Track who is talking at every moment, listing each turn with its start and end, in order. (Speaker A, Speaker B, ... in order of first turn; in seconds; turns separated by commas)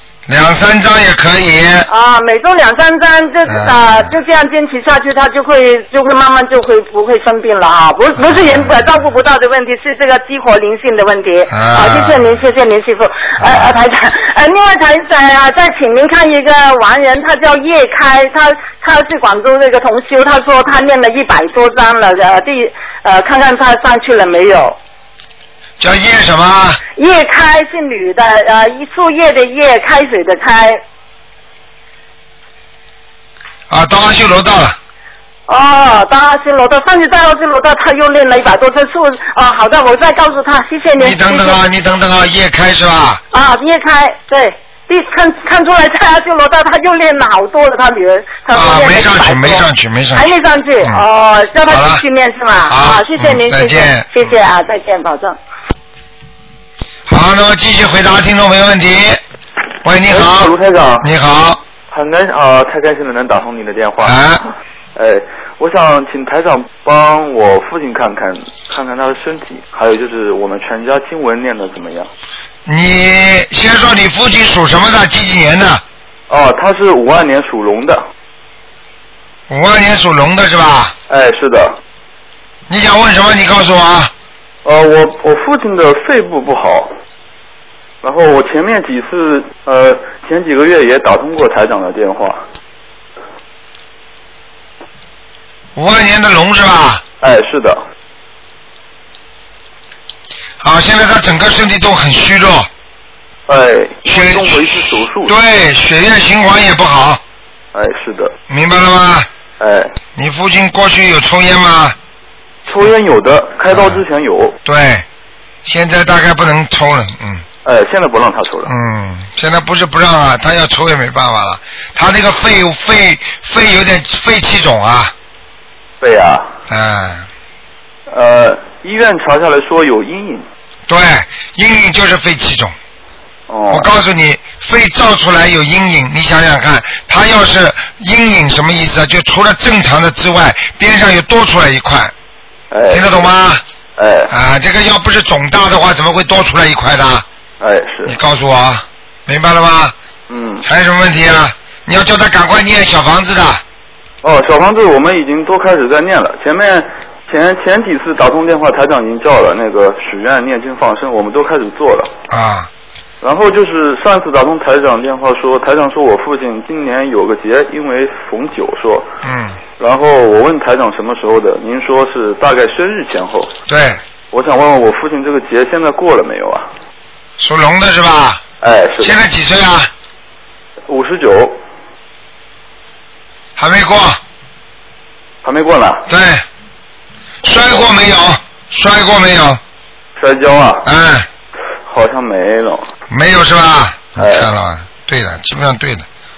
Speaker A: 0.3-1.9, Speaker B: 1.9-24.8, Speaker A: 3.5-3.8, Speaker A: 8.2-8.7, Speaker A: 11.5-12.4, Speaker A: 13.4-13.7, Speaker A: 25.8-26.8, Speaker B: 27.0-30.8, Speaker A: 33.7-34.8, Speaker B: 35.5-41.6, Speaker A: 41.0-43.2, Speaker B: 43.3-55.4, Speaker A: 48.5-50.2, Speaker A: 51.7-52.0, Speaker A: 52.7-54.4, Speaker A: 57.1-59.2, Speaker A: 59.8-61.6, Speaker C: 60.0-61.1, Speaker C: 61.9-64.2, Speaker A: 64.0-64.4, Speaker C: 64.9-72.1, Speaker A: 72.7-75.8, Speaker C: 76.3-78.0, Speaker A: 79.5-80.9, Speaker C: 81.1-81.8, Speaker A: 82.7-84.1, Speaker C: 84.6-86.9, Speaker C: 88.0-92.4, Speaker A: 95.8-97.0, Speaker C: 97.2-97.8, Speaker A: 100.6-102.7, Speaker C: 103.5-105.3, Speaker A: 104.1-107.2, Speaker C: 107.7-108.3, Speaker A: 108.5-109.3, Speaker C: 109.6-109.9, Speaker A: 110.2-112.0, Speaker C: 112.7-114.5, Speaker A: 113.7-114.0, Speaker A: 114.6-115.0, Speaker A: 115.6-117.4, Speaker C: 117.6-118.7, Speaker A: 118.7-125.1, Speaker C: 126.0-126.5, Speaker A: 126.7-127.3, Speaker C: 128.1-130.4, Speaker A: 130.9-132.7, Speaker C: 133.5-133.9, Speaker A: 133.7-142.1, Speaker C: 142.7-143.3, Speaker A: 142.9-143.6, Speaker C: 144.0-144.3, Speaker A: 144.3-147.2, Speaker C: 147.6-148.1, Speaker A: 148.1-149.9, Speaker C: 150.3-150.6, Speaker A: 150.6-153.6, Speaker C: 154.2-162.1, Speaker A: 162.3-162.7, Speaker C: 163.2-169.1, Speaker A: 169.2-169.6, Speaker C: 169.8-173.5, Speaker A: 173.7-174.0, Speaker C: 174.3-176.7, Speaker A: 177.4-178.4, Speaker C: 178.6-179.2, Speaker A: 179.0-179.9, Speaker C: 180.9-181.6, Speaker A: 183.6-184.2, Speaker C: 185.4-186.1, Speaker A: 186.1-186.4, Speaker A: 187.4-189.6, Speaker C: 187.5-187.9, Speaker C: 190.2-190.9, Speaker A: 190.8-191.3, Speaker C: 191.9-192.9, Speaker A: 193.1-196.0, Speaker C: 194.2-194.5